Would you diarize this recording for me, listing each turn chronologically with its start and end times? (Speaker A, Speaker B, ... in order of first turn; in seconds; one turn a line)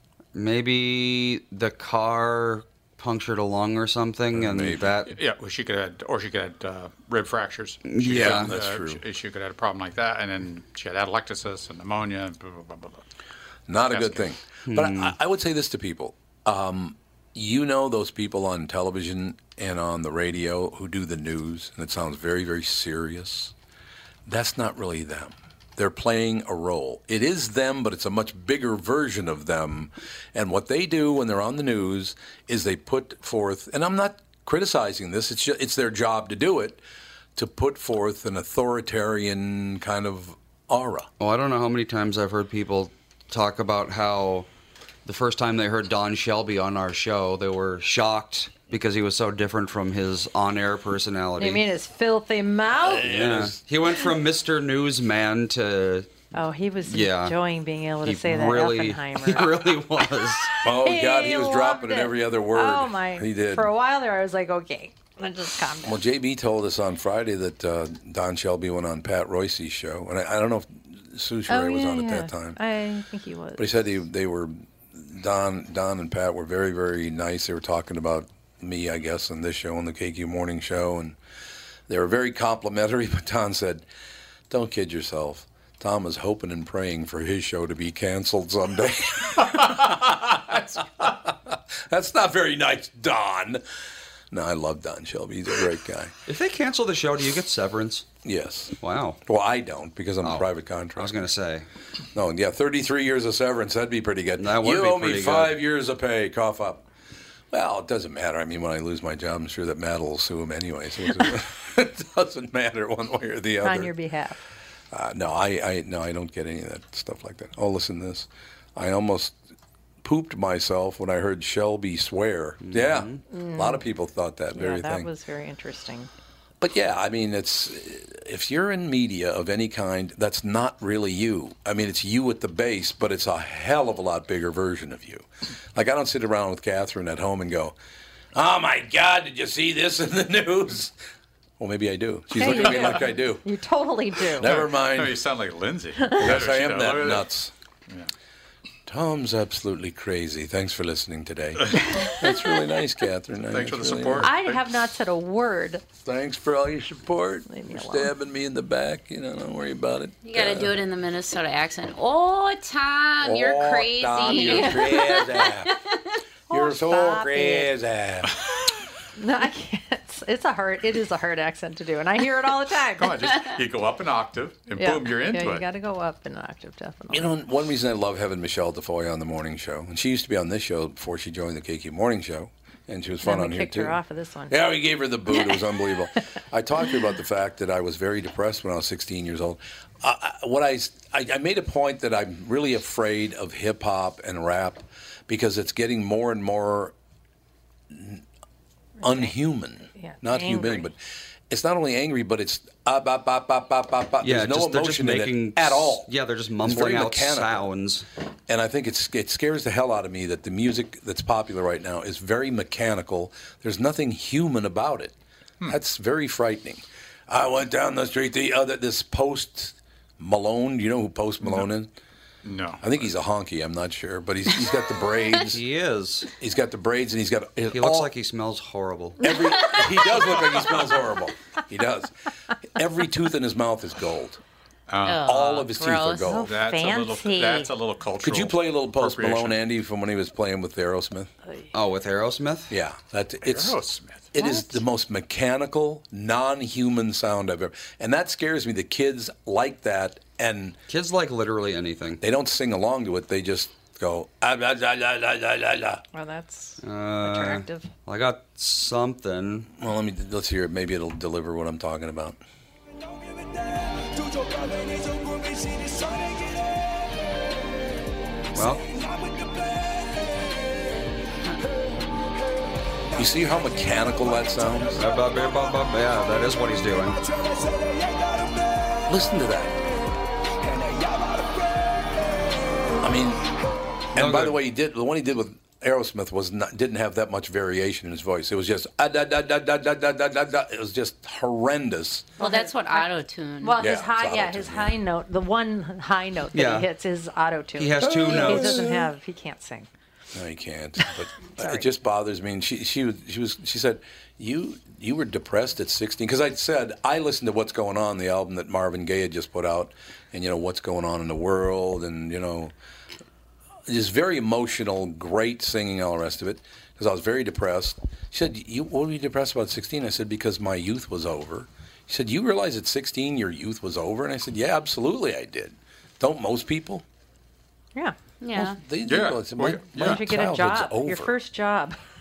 Speaker A: 0.3-5.2
Speaker B: 4.3-4.9
Speaker C: 5.0-13.0
Speaker A: 7.8-8.5
Speaker B: 8.0-9.0
Speaker B: 13.7-23.5
Speaker C: 13.9-14.3
Speaker A: 14.7-15.2
Speaker B: 24.3-36.8
Speaker B: 37.4-41.1
Speaker A: 41.2-44.5
Speaker A: 45.0-51.6
Speaker D: 51.4-53.1
Speaker B: 52.8-53.6
Speaker A: 53.0-56.1
Speaker D: 56.3-59.5
Speaker A: 56.8-57.4
Speaker A: 58.0-60.5
Speaker B: 60.6-63.7
Speaker D: 60.8-66.0
Speaker B: 65.8-72.6
Speaker D: 71.5-73.9
Speaker B: 73.6-81.2
Speaker B: 81.9-83.8
Speaker B: 84.5-93.6
Speaker B: 94.3-96.1
Speaker A: 96.3-98.1
Speaker B: 98.2-101.2
Speaker A: 98.8-99.2
Speaker A: 101.0-101.7
Speaker B: 102.2-106.9
Speaker A: 104.4-105.6
Speaker B: 107.5-113.9
Speaker D: 113.6-114.4
Speaker B: 114.9-119.4
Speaker B: 120.0-125.1
Speaker A: 122.6-123.2
Speaker D: 123.3-123.9
Speaker D: 124.5-126.1
Speaker B: 126.6-137.7
Speaker B: 138.3-140.9
Speaker B: 141.6-143.4
Speaker D: 142.3-144.5
Speaker C: 142.4-143.0
Speaker B: 144.3-145.2
Speaker C: 144.4-147.3
Speaker D: 146.0-146.4
Speaker B: 146.2-147.5
Speaker B: 148.9-154.3
Speaker C: 151.6-152.1
Speaker D: 152.0-152.4
Speaker C: 153.5-154.7
Speaker D: 154.2-155.8
Speaker B: 156.0-160.8
Speaker D: 157.5-158.1
Speaker E: 160.2-165.8
Speaker B: 163.2-165.7
Speaker D: 164.2-165.0
Speaker D: 166.5-167.7
Speaker B: 166.5-168.3
Speaker D: 169.2-173.3
Speaker C: 173.0-175.7
Speaker D: 174.8-177.3
Speaker B: 177.1-184.0
Speaker D: 183.2-184.6
Speaker B: 184.5-196.9
Speaker D: 185.3-185.7
Speaker B: 197.9-198.2
Speaker B: 199.0-201.0
Speaker D: 199.0-199.3
Speaker D: 199.9-200.9
Speaker B: 201.5-206.1
Speaker A: 204.2-208.1
Speaker B: 206.6-207.7
Speaker B: 208.5-221.9
Speaker C: 222.4-223.1
Speaker B: 222.8-225.6
Speaker A: 225.5-226.3
Speaker B: 226.4-228.1
Speaker A: 227.7-229.2
Speaker B: 229.2-232.1
Speaker B: 232.8-234.4
Speaker C: 234.9-235.3
Speaker E: 235.0-236.3
Speaker B: 235.2-236.5
Speaker D: 236.3-237.7
Speaker C: 236.3-239.6
Speaker B: 238.2-241.3
Speaker A: 241.7-242.7
Speaker B: 242.7-243.8
Speaker C: 243.4-244.3
Speaker B: 244.3-250.8
Speaker D: 244.4-244.8
Speaker A: 250.9-252.2
Speaker B: 252.2-256.0
Speaker D: 256.1-257.9
Speaker A: 256.8-259.7
Speaker B: 259.8-262.4
Speaker A: 268.5-268.9
Speaker B: 273.1-275.0
Speaker A: 275.0-277.2
Speaker B: 279.1-279.8
Speaker B: 283.0-283.4
Speaker B: 284.1-292.4
Speaker A: 284.2-284.6
Speaker E: 292.4-293.9
Speaker D: 292.4-293.1
Speaker D: 293.6-299.9
Speaker B: 293.8-295.0
Speaker A: 296.5-296.9
Speaker A: 297.8-298.8
Speaker B: 298.0-299.0
Speaker B: 300.4-312.8
Speaker D: 301.6-301.9
Speaker B: 313.9-327.0
Speaker E: 328.4-328.8
Speaker B: 328.6-331.4
Speaker C: 329.0-330.3
Speaker D: 330.0-332.0